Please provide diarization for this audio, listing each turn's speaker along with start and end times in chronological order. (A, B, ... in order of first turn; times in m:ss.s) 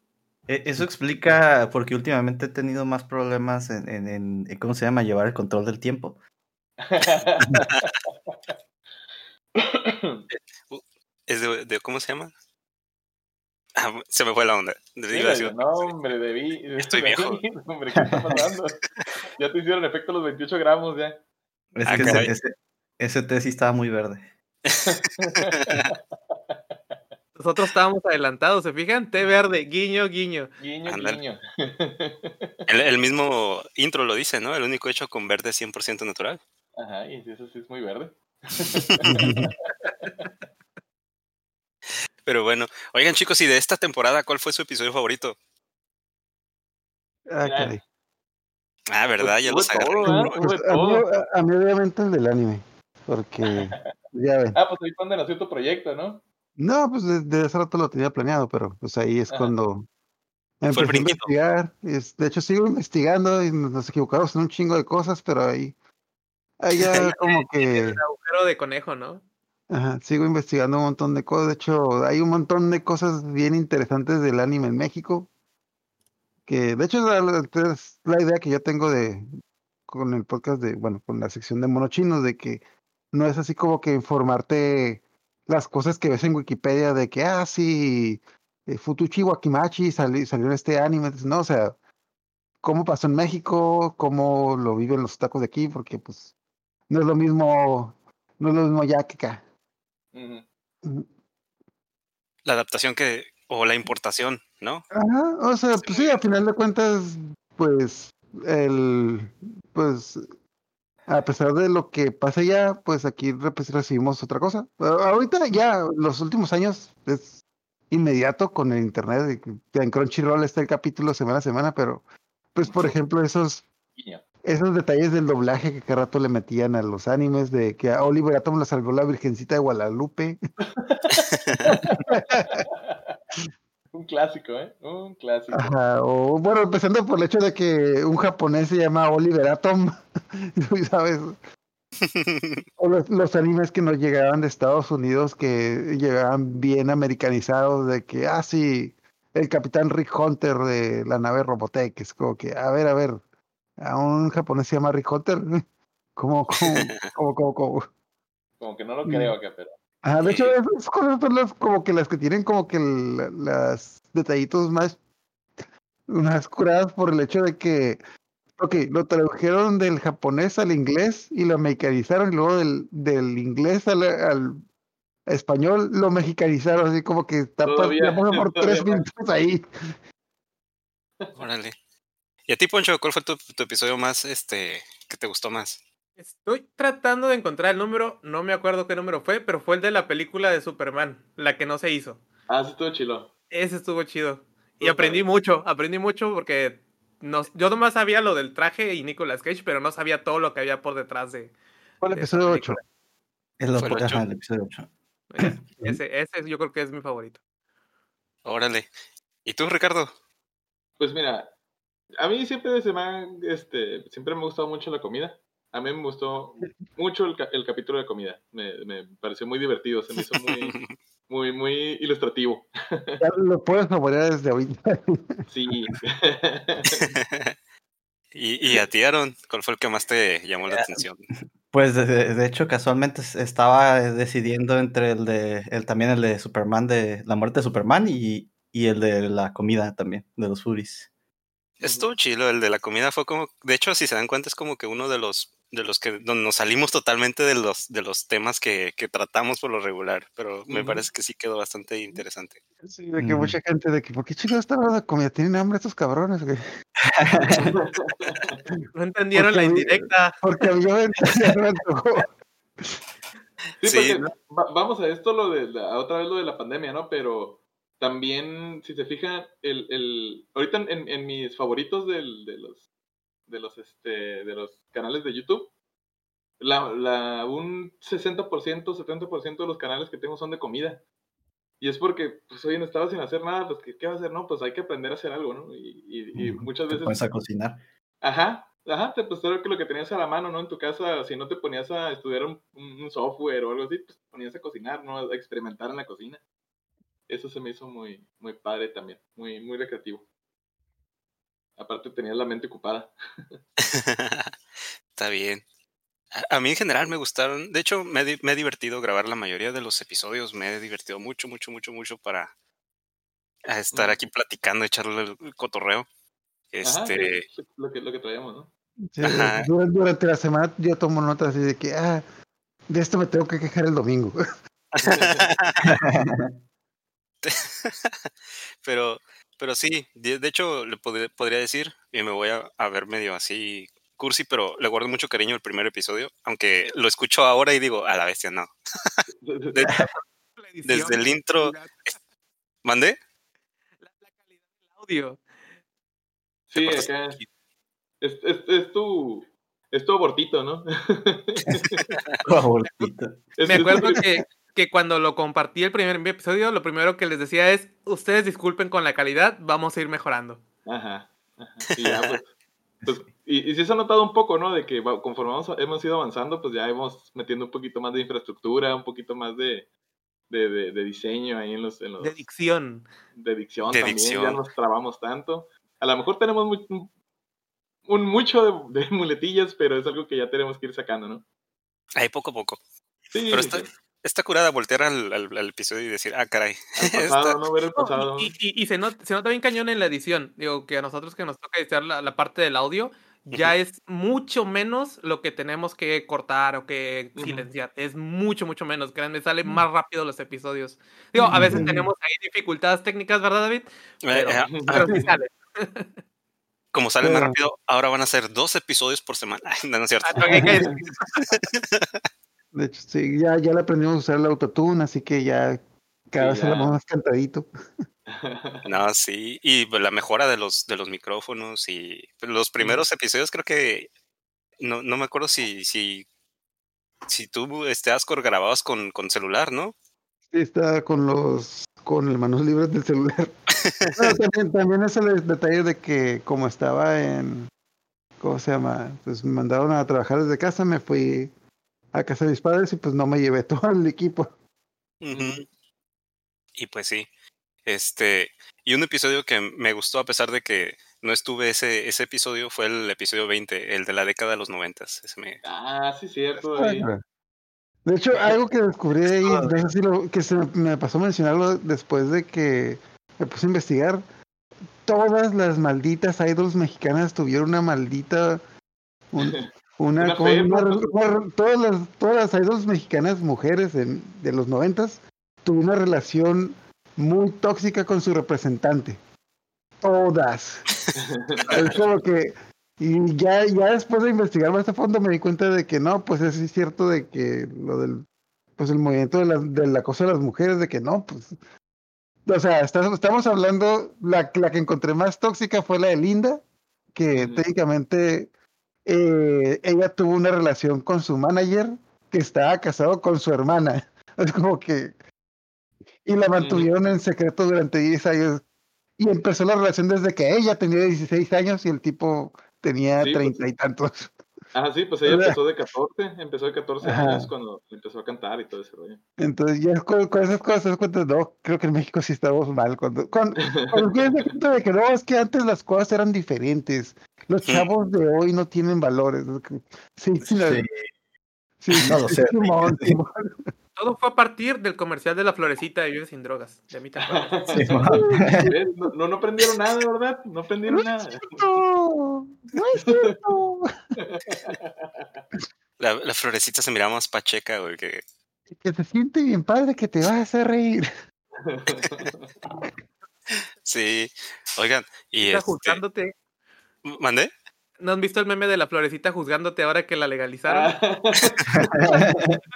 0:00.5-0:06.2 A
0:06.8-0:08.3 B
0:09.6-0:10.2 B
0:10.3-0:12.3 C
0:13.8-0:15.9 C
0:15.1-0:18.8 B
0:16.8-0:17.4 C
0:17.9-0:18.4 A
0:19.4-0:21.2 B
0:21.8-0:24.3 A
0:21.9-0:22.3 C
0:24.8-0:26.4 B
0:27.4-0:30.5 D
0:30.6-0:32.6 B
0:30.9-0:31.2 C
0:32.7-0:36.4 C
0:36.8-0:40.3 B
0:39.1-0:39.5 E
0:42.2-0:45.4 C
0:47.3-0:47.8 E
0:47.4-0:47.8 B
0:48.9-0:50.4 C
0:49.2-0:51.0 B
0:50.0-0:54.6 E
0:53.6-0:53.9 B
0:54.6-0:56.2 B
0:56.6-0:59.9 E
1:00.6-1:05.8 E
1:00.7-1:01.3 C
1:06.6-1:08.0 E
1:07.2-1:09.2 D
1:09.7-1:15.3 E
1:16.5-1:19.3 E
1:19.9-1:31.8 E
1:32.6-1:36.3 E
1:36.9-1:39.4 E
1:40.1-1:40.5 B
1:42.4-1:44.8 C
1:44.9-1:50.2 E
1:45.8-1:46.1 C
1:51.1-2:02.0 E
2:02.6-2:03.7 E
2:04.0-2:04.2 B
2:04.4-2:10.4 E
2:10.7-2:13.2 B
2:12.0-2:12.7 E
2:13.9-2:15.7 B
2:15.5-2:21.4 E
2:22.0-2:22.6 C
2:22.8-2:33.2 E
2:33.8-2:35.6 E
2:36.2-2:37.9 E
2:36.6-2:37.1 C
2:38.6-2:39.8 B
2:39.1-2:39.3 E
2:40.0-2:45.0 E
2:40.2-2:40.5 C
2:46.1-2:48.0 E
2:48.6-2:54.6 E
2:55.3-2:59.6 E
2:57.7-2:59.0 B
3:01.4-3:01.8 C
3:02.5-3:05.8 C
3:06.2-3:12.2 D
3:12.5-3:13.3 B
3:13.5-3:21.5 D
3:14.8-3:15.3 B
3:22.0-3:22.8 E
3:22.1-3:22.8 D
3:23.6-3:24.9 A
3:23.8-3:24.3 C
3:25.3-3:27.4 D
3:25.4-3:26.0 A
3:28.4-3:28.9 C
3:29.4-3:30.1 C
3:31.0-3:31.5 B
3:32.2-3:40.8 B
3:40.5-3:40.9 C
3:41.3-3:43.2 B
3:43.2-3:45.5 E
3:45.5-3:47.1 B
3:47.0-3:47.5 C
3:48.3-3:51.2 C
3:50.7-4:01.1 A
4:01.8-4:12.6 C
4:01.8-4:02.1 B
4:10.7-4:11.0 B
4:12.8-4:16.6 E
4:13.2-4:13.6 A
4:17.0-4:17.7 A
4:17.7-4:18.6 B
4:19.0-4:20.4 D
4:19.4-4:22.3 E
4:23.8-4:32.9 B
4:23.8-4:24.2 C
4:33.5-4:35.7 B
4:36.6-4:41.0 B
4:41.8-4:47.3 B
4:46.4-4:47.8 A
4:48.2-4:56.4 B
4:57.3-5:00.2 B
5:01.8-5:03.6 B
5:03.8-5:04.5 C
5:05.2-5:05.6 C
5:06.4-5:12.5 C
5:13.6-5:16.1 C
5:16.7-5:17.4 C
5:16.8-5:18.7 B
5:19.1-5:22.2 E
5:19.2-5:19.7 C
5:22.9-5:24.4 E
5:24.9-5:26.0 C
5:25.0-5:25.5 B
5:25.8-5:26.5 A
5:25.9-5:26.3 E
5:27.4-5:28.3 C
5:28.8-5:40.1 C
5:39.4-5:40.0 B
5:40.6-5:42.1 D
5:40.8-5:41.7 C
5:42.8-5:43.2 C
5:44.0-5:44.3 D
5:44.9-5:45.4 D
5:46.7-5:47.4 B
5:46.7-5:47.5 C
5:48.2-5:52.1 B
5:52.4-5:53.5 A
5:53.6-5:54.2 B
5:53.7-6:00.6 D
6:00.9-6:02.5 B
6:02.0-6:02.4 C
6:03.1-6:09.9 B
6:10.5-6:12.4 B
6:12.2-6:13.1 D
6:13.3-6:17.1 B
6:13.9-6:14.6 C
6:18.1-6:21.4 B
6:22.2-6:22.8 C
6:23.3-6:23.9 B
6:23.5-6:27.6 C
6:27.0-6:28.5 B
6:28.0-6:46.1 D
6:37.4-6:37.7 B
6:41.4-6:42.1 E
6:44.2-6:45.1 C
6:44.7-6:45.3 B
6:46.9-6:50.9 C
6:47.2-6:47.6 E
6:50.2-6:51.5 D
6:51.5-6:52.1 C
6:52.7-6:57.7 E
6:56.4-6:57.0 B
6:58.3-6:58.9 B
6:58.9-7:04.1 C
7:04.8-7:06.3 C
7:07.3-7:09.9 C
7:10.5-7:13.5 E
7:13.8-7:14.3 C
7:14.1-7:17.7 E
7:18.4-7:21.5 E
7:22.1-7:24.5 E
7:25.2-7:25.7 C
7:25.3-7:25.6 B
7:26.8-7:27.3 C
7:27.9-7:35.6 C
7:35.6-7:37.1 B
7:36.6-7:37.2 E
7:38.0-7:44.2 E
7:39.4-7:39.8 A
7:45.0-7:48.6 E
7:49.3-7:59.2 E
7:49.4-7:49.7 B
7:50.2-7:51.1 B
8:00.0-8:00.9 E
8:01.2-8:01.8 B
8:01.7-8:08.3 E
8:08.8-8:11.6 E
8:12.5-8:16.6 E
8:17.2-8:18.5 E
8:17.4-8:17.6 B
8:19.0-8:25.2 E
8:26.2-8:28.6 E
8:26.6-8:26.9 B
8:29.2-8:34.4 E
8:33.2-8:33.6 B
8:34.7-8:39.2 B
8:35.2-8:35.6 E
8:37.0-8:37.5 E
8:39.4-8:50.8 E
8:43.6-8:44.0 B
8:50.5-8:51.0 A
8:51.8-8:53.6 E
8:52.0-8:53.2 A
8:54.0-8:58.0 D
8:57.2-9:01.7 B
8:57.7-8:58.7 A
8:58.2-8:58.7 E
9:00.9-9:03.9 E
9:03.0-9:03.4 B
9:04.2-9:05.4 B
9:06.0-9:08.2 C
9:08.7-9:11.1 E
9:11.6-9:12.5 B
9:13.8-9:16.0 C
9:15.4-9:16.3 D
9:17.0-9:17.5 C
9:18.0-9:20.9 D
9:20.7-9:21.8 B
9:21.7-9:22.6 A